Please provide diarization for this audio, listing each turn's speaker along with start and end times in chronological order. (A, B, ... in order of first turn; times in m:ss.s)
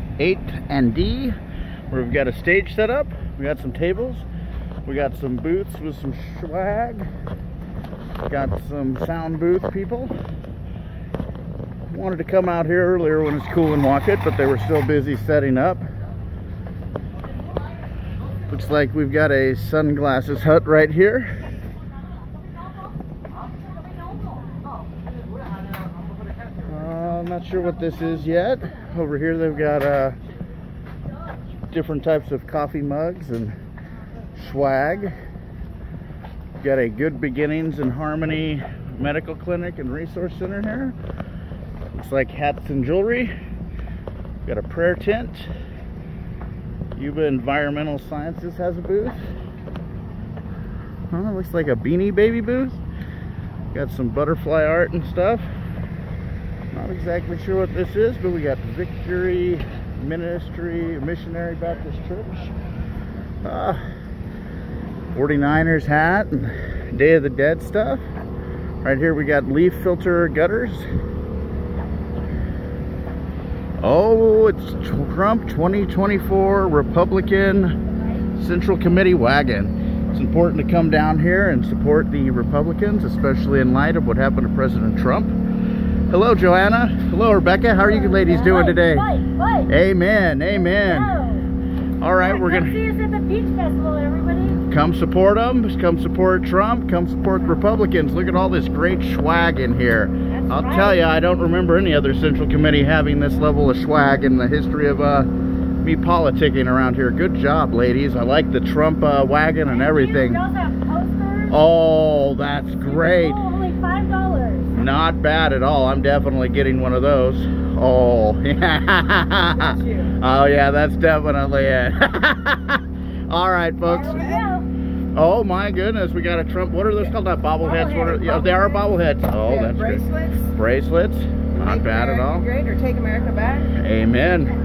0:00.2-0:01.4 A
0:01.9-0:04.2 A
0:04.9-0:07.1 A
0:08.3-0:10.1 A
0:11.9-0:15.8 A
0:18.5-0:21.3 A
0:26.7-0:30.2 A
0:31.7-0:33.6 A
0:34.3-0:35.2 A
0:36.6-0:41.0 A
0:41.9-0:43.3 A
0:44.4-0:45.5 A
0:47.0-0:49.2 A
0:51.1-0:52.8 A
0:53.7-0:55.4 A
0:56.7-1:02.5 A
1:03.4-1:03.8 A
1:05.1-1:08.0 A
1:08.8-1:10.9 A
1:13.8-1:17.8 A
1:18.4-1:25.3 A
1:26.1-1:29.2 A
1:28.0-1:29.7 B
1:29.7-1:31.2 A
1:30.6-1:31.5 B
1:32.0-1:32.8 A
1:32.2-1:34.6 B
1:34.5-1:45.3 A
1:40.3-1:41.0 B
1:45.8-1:50.4 A
1:49.7-1:51.6 B
1:51.5-1:53.4 A
1:52.9-1:54.7 B
1:54.7-2:04.4 A
1:59.6-2:00.1 C
2:03.9-2:04.7 B
2:05.1-2:12.5 A
2:07.8-2:08.3 C
2:09.4-2:10.3 C
2:11.5-2:13.6 C
2:13.7-2:14.5 A